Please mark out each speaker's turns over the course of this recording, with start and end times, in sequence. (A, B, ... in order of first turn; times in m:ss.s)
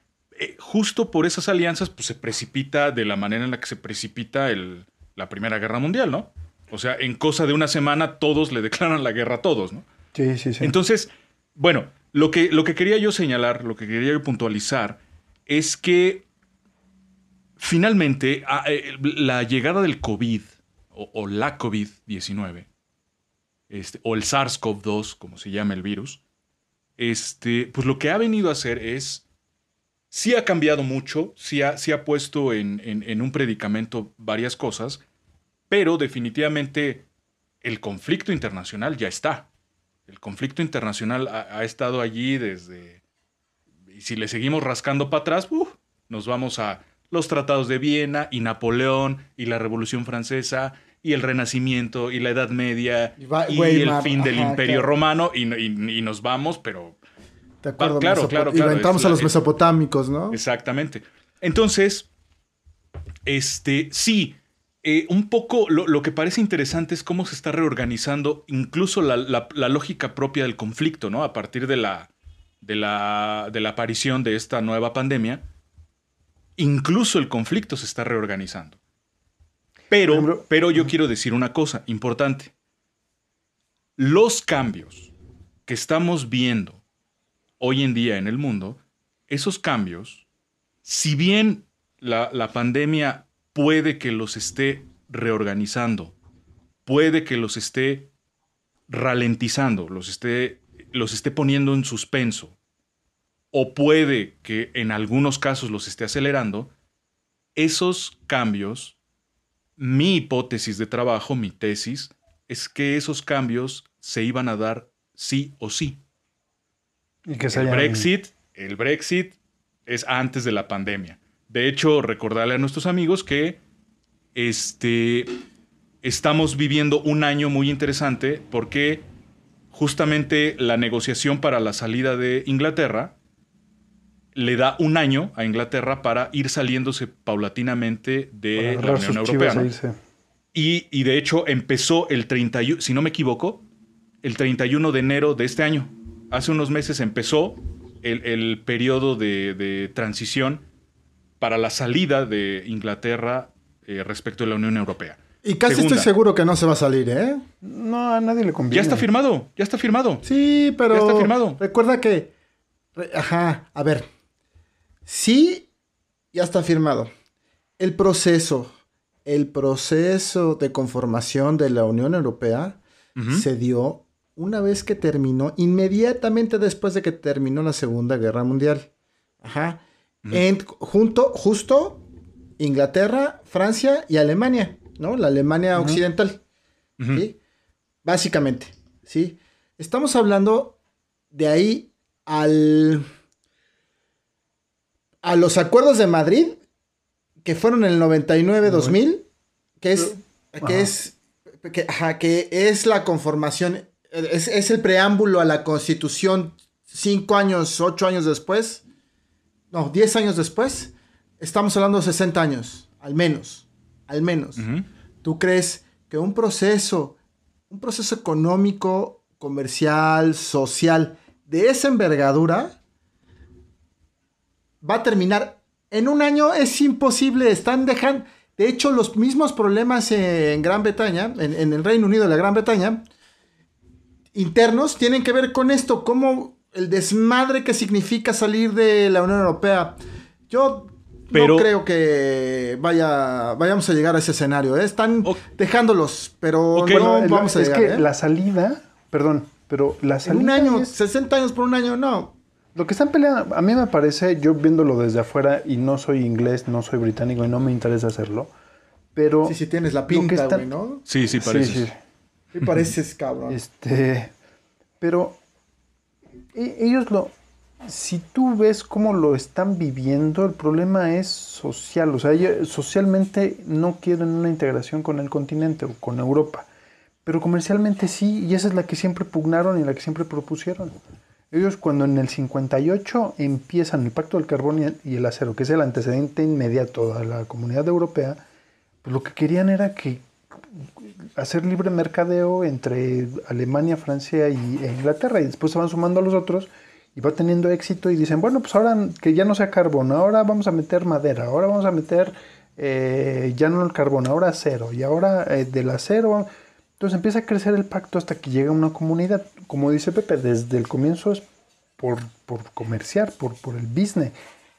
0:00.4-0:09.9 A
0:10.1-0:10.8 B
0:10.6-0:16.2 A
0:17.6-0:22.7 A
0:23.7-0:26.2 A
0:27.0-0:29.2 A
0:30.1-0:35.0 A
0:35.7-0:37.0 A
0:37.6-0:39.5 A
0:40.1-0:43.0 A
0:43.9-0:57.0 A
0:53.2-0:54.9 C
0:57.6-1:00.4 C
0:57.8-0:59.3 A
1:00.3-1:02.1 A
1:03.3-1:12.1 A
1:12.6-1:15.4 A
1:16.6-1:18.8 A
1:19.9-1:22.5 A
1:20.1-1:20.9 B
1:24.0-1:25.1 A
1:25.7-1:26.8 A
1:27.6-1:30.2 A
1:30.8-1:36.2 A
1:36.9-1:38.1 A
1:38.9-1:42.6 A
1:43.5-1:46.7 A
1:47.6-1:49.0 A
1:49.8-1:56.0 A
1:57.3-1:58.1 B
1:57.5-1:59.4 A
1:59.9-2:03.6 A
2:04.4-2:05.3 A
2:06.0-2:09.0 A
2:09.7-2:13.2 A
2:14.4-2:19.7 A
2:18.6-2:20.0 B
2:20.5-2:23.6 A
2:24.2-2:30.6 A
2:31.4-2:36.1 A
2:35.4-2:37.4 C
2:37.6-2:39.1 B
2:38.7-2:40.2 A
2:40.2-2:42.3 C
2:40.9-2:41.6 A
2:43.0-2:44.1 C
2:45.1-2:45.7 C
2:46.3-2:47.1 C
2:47.8-2:48.7 C
2:49.2-2:58.9 C
2:53.2-2:53.4 A
2:59.4-3:02.0 C
3:02.6-3:06.4 C
3:05.8-3:06.0 B
3:07.0-3:07.2 A
3:07.1-3:07.4 C
3:08.0-3:10.8 C
3:11.3-3:13.1 C
3:15.2-3:16.6 C
3:17.4-3:19.3 C
3:18.6-3:19.0 B
3:19.8-3:28.8 C
3:20.0-3:20.9 B
3:29.7-3:34.7 C
3:34.6-3:34.9 A
3:35.2-3:37.2 C
3:37.7-3:42.8 C
3:44.8-3:53.0 C
3:54.3-4:08.0 C
4:01.3-4:01.7 A
4:06.8-4:07.2 A
4:06.8-4:11.0 B
4:10.3-4:12.4 C
4:12.8-4:18.5 B
4:19.2-4:19.6 B
4:19.4-4:21.0 C
4:20.1-4:20.7 B
4:21.1-4:21.9 A
4:21.4-4:22.0 B
4:22.5-4:23.6 C
4:23.5-4:24.3 B
4:25.0-4:25.4 B
4:26.5-4:36.7 B
4:37.2-4:41.0 B
4:41.5-4:48.4 B
4:49.0-5:11.4 B
5:12.0-5:14.4 B